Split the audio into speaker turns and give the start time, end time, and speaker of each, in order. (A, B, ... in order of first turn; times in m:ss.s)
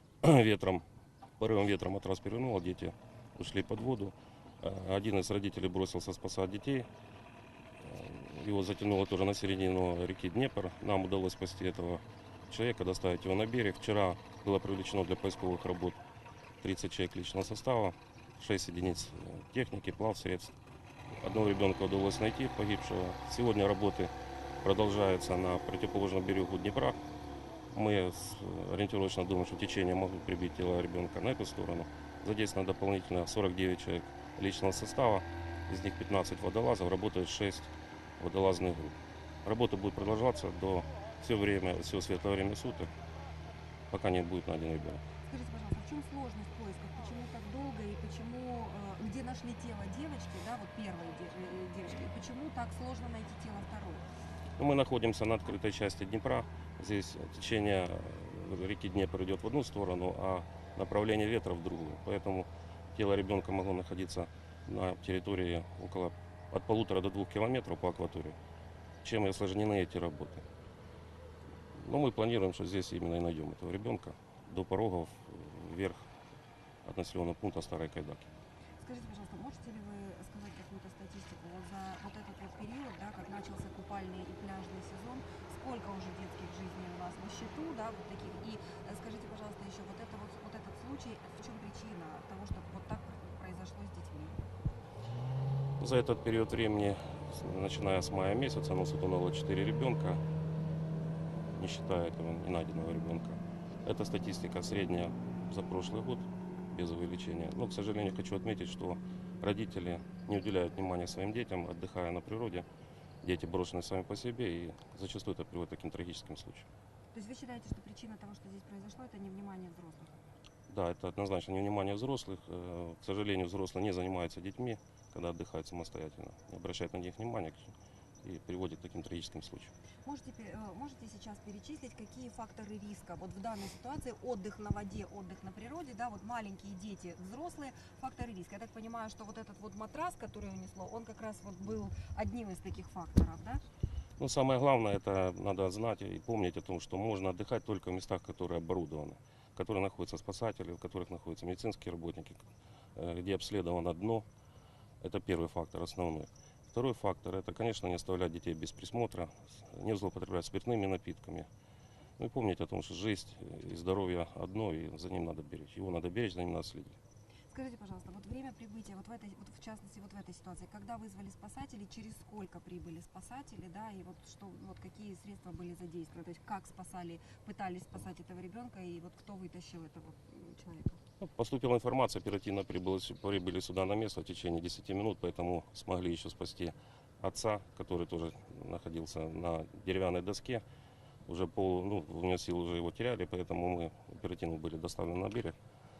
0:00.2-0:00.8 A
0:01.4-0:06.9 A
0:07.8-0:16.0 A
0:16.6-0:20.6 A
0:21.2-0:27.0 A
0:27.7-0:42.9 A
0:43.9-0:45.0 A
0:45.2-0:54.1 B
0:54.6-1:08.4 A
1:09.0-1:10.4 A
1:11.7-1:16.1 A
1:16.8-1:18.3 A
1:18.8-1:34.4 B
1:35.8-1:40.2 A
1:41.6-1:52.6 A
1:53.2-1:56.7 A
1:57.1-2:00.2 B
2:00.7-2:09.7 A
2:10.0-2:23.6 B
2:24.2-2:34.2 A
2:35.0-2:41.5 A
2:42.2-2:47.0 A
2:47.5-3:01.0 B
3:01.2-3:10.6 A
3:11.2-3:15.6 A